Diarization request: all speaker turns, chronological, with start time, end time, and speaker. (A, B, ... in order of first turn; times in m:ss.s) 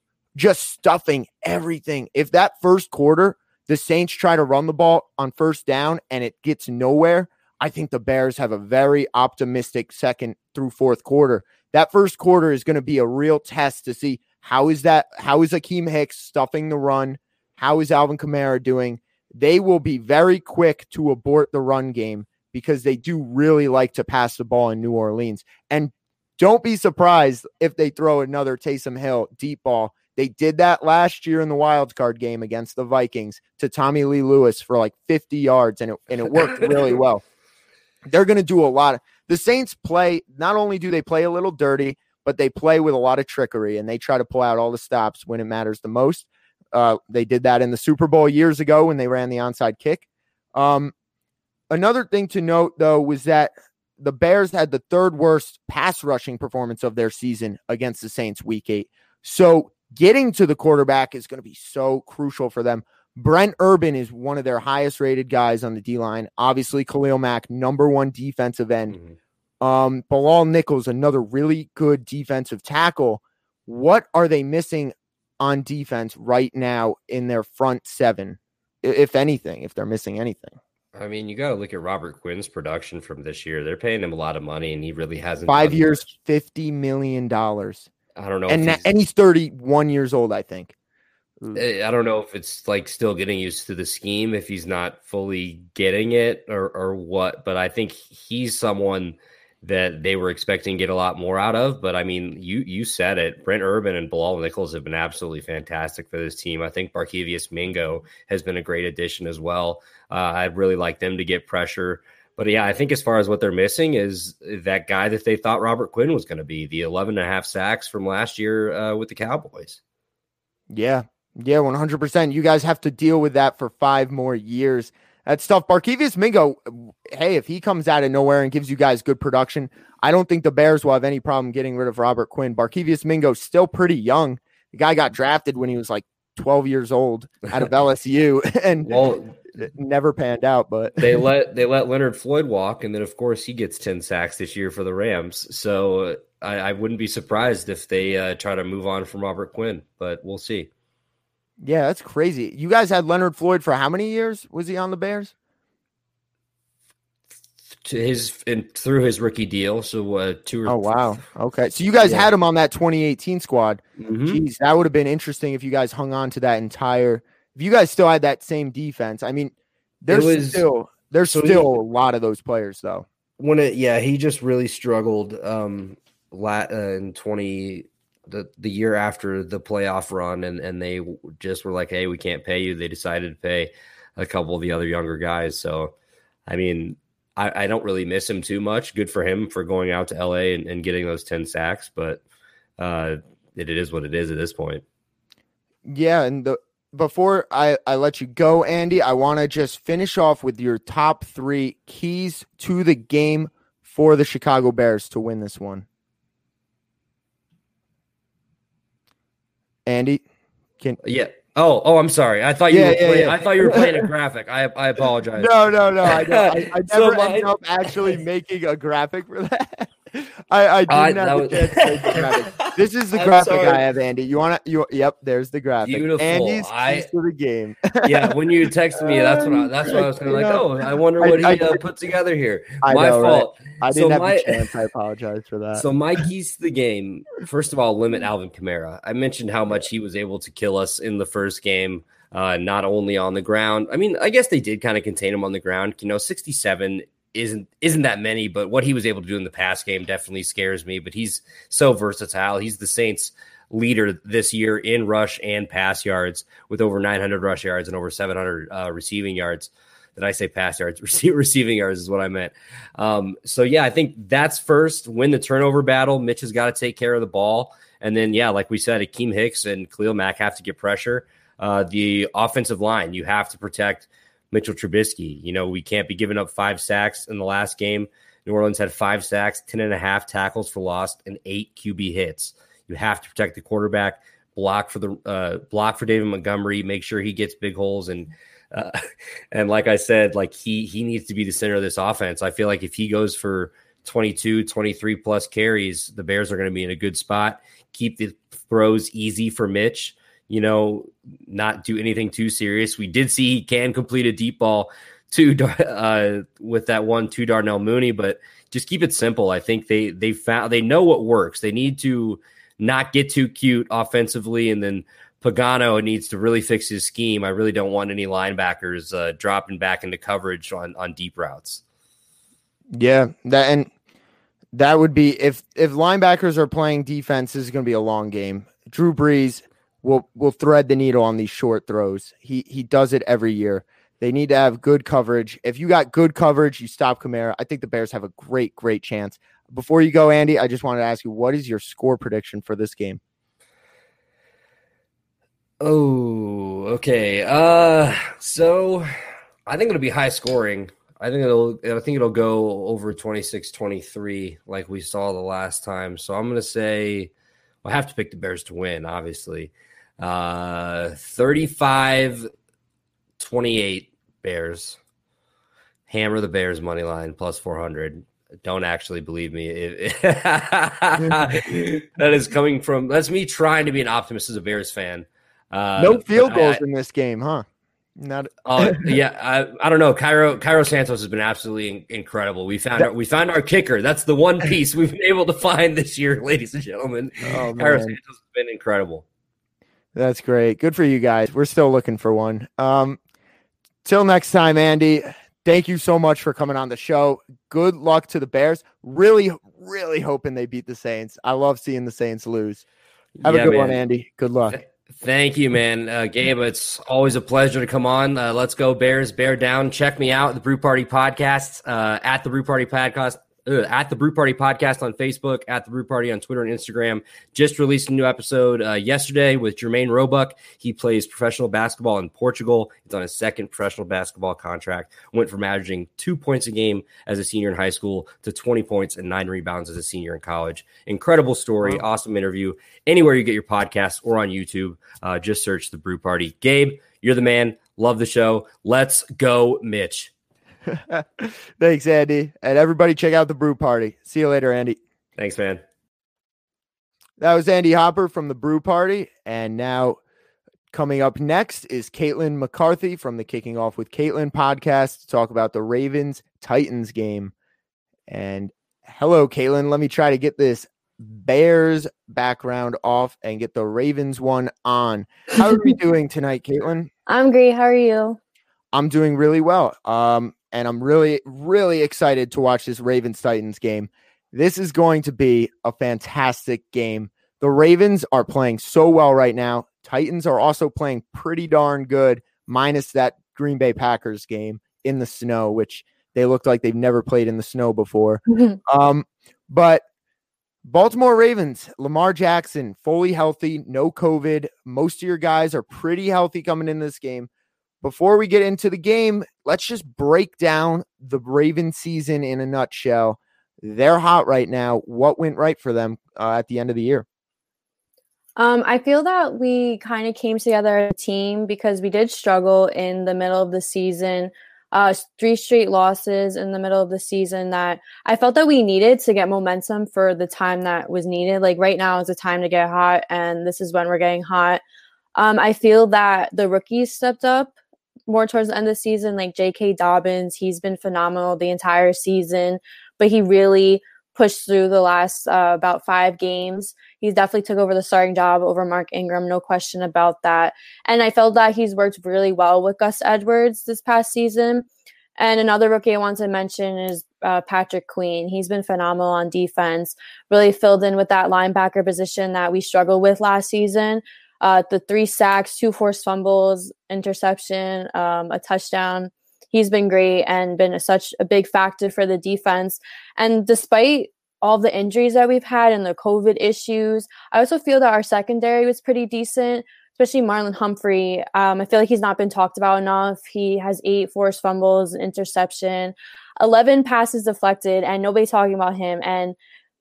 0:00.4-0:37.2 A
0:38.0-0:50.9 A
0:51.7-1:09.0 A
1:08.9-1:09.2 B
1:09.6-1:20.6 A
1:21.0-1:26.1 B
1:25.5-1:27.9 A
1:28.2-1:28.8 B
1:28.5-1:30.7 A
1:31.5-1:59.8 B
2:00.7-2:19.0 A
2:18.9-2:19.4 B
2:19.6-2:21.1 A
2:21.0-2:30.7 B
2:31.6-2:35.3 A
2:37.8-2:41.1 B
2:40.7-2:53.1 A
2:42.0-2:42.3 B
2:44.0-2:44.4 B
2:50.1-2:50.7 B
2:51.2-2:51.7 B
2:53.4-3:05.9 B
3:06.5-3:12.2 B
3:12.8-3:14.8 B
3:15.9-3:25.9 A
3:29.9-3:30.2 A
3:31.0-3:38.2 B
3:32.7-3:34.1 A
3:35.4-3:48.4 A
3:40.9-3:43.8 B
3:45.8-3:47.1 B
3:48.0-3:54.7 B
3:49.0-3:50.7 A
3:51.2-3:51.8 A
3:52.8-3:55.9 A
3:55.7-4:49.0 B
4:49.5-5:21.8 B
5:22.9-5:23.9 A
5:24.7-5:43.2 A
5:45.8-5:49.1 B
5:49.7-5:57.3 B
5:57.8-6:02.5 B
6:03.4-6:05.0 B
6:06.1-6:16.8 B
6:16.0-6:17.6 A
6:18.2-6:19.1 A
6:18.6-6:29.2 B
6:27.5-6:28.2 A
6:30.2-6:33.2 A
6:34.0-6:42.8 A
6:43.4-6:44.0 B
6:43.4-6:44.8 A
6:44.7-7:20.3 B
7:20.9-7:25.0 A
7:25.4-7:25.8 B
7:27.4-7:30.2 A
7:30.9-7:37.5 A
7:38.3-7:47.1 A
7:47.3-7:48.4 C
7:48.9-8:10.0 A
8:08.5-8:08.8 C
8:10.8-8:17.5 A
8:18.0-8:27.2 A
8:28.6-8:44.8 C
8:45.4-8:47.8 C
8:48.3-9:04.9 C
9:05.4-9:39.6 C